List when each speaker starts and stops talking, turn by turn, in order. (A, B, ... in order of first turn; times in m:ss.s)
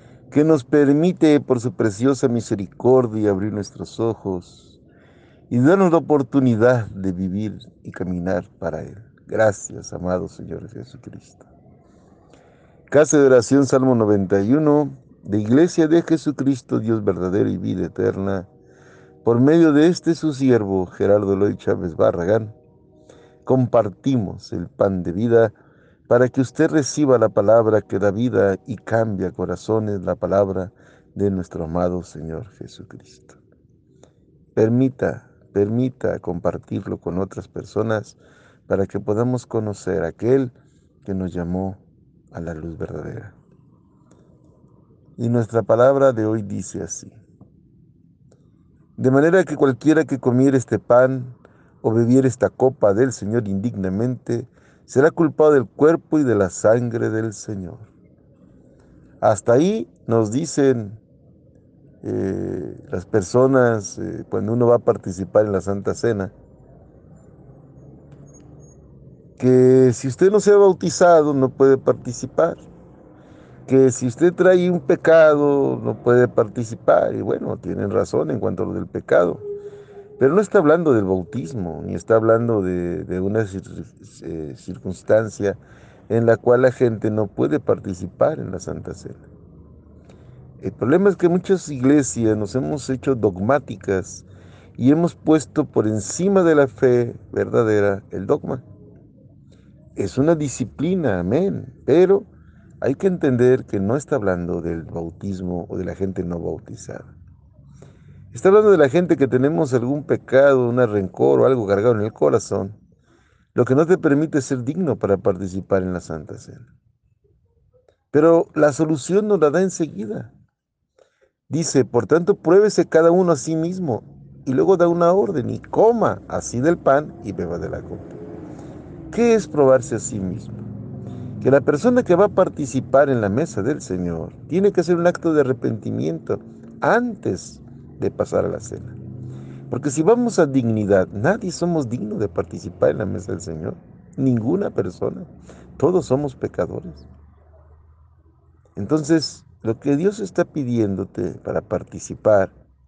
0:00.3-0:04.8 A
0:05.5-0:11.5 A
0:12.9-0:18.5 A
0:19.2-0:22.6 A
0:23.4-0:25.5 A
0:26.1-0:33.4 A
0:34.6-0:40.5 A
0:41.0-0:41.8 A
0:42.3-0:43.4 A
0:45.2-0:47.2 A
0:49.0-0:57.9 A
0:59.2-1:01.0 A
1:02.0-1:06.3 A
1:09.4-1:12.6 A
1:13.7-1:19.4 A
1:20.2-1:29.3 A
1:30.6-1:34.2 A
1:34.8-1:38.6 A
1:40.0-1:42.2 A
1:42.8-1:47.1 A
1:48.3-1:52.8 A
1:53.5-1:56.7 A
1:58.1-2:00.3 A
2:01.5-2:08.2 A
2:09.1-2:10.6 A
2:11.4-2:19.0 A
2:19.7-2:27.1 A
2:28.8-2:32.5 A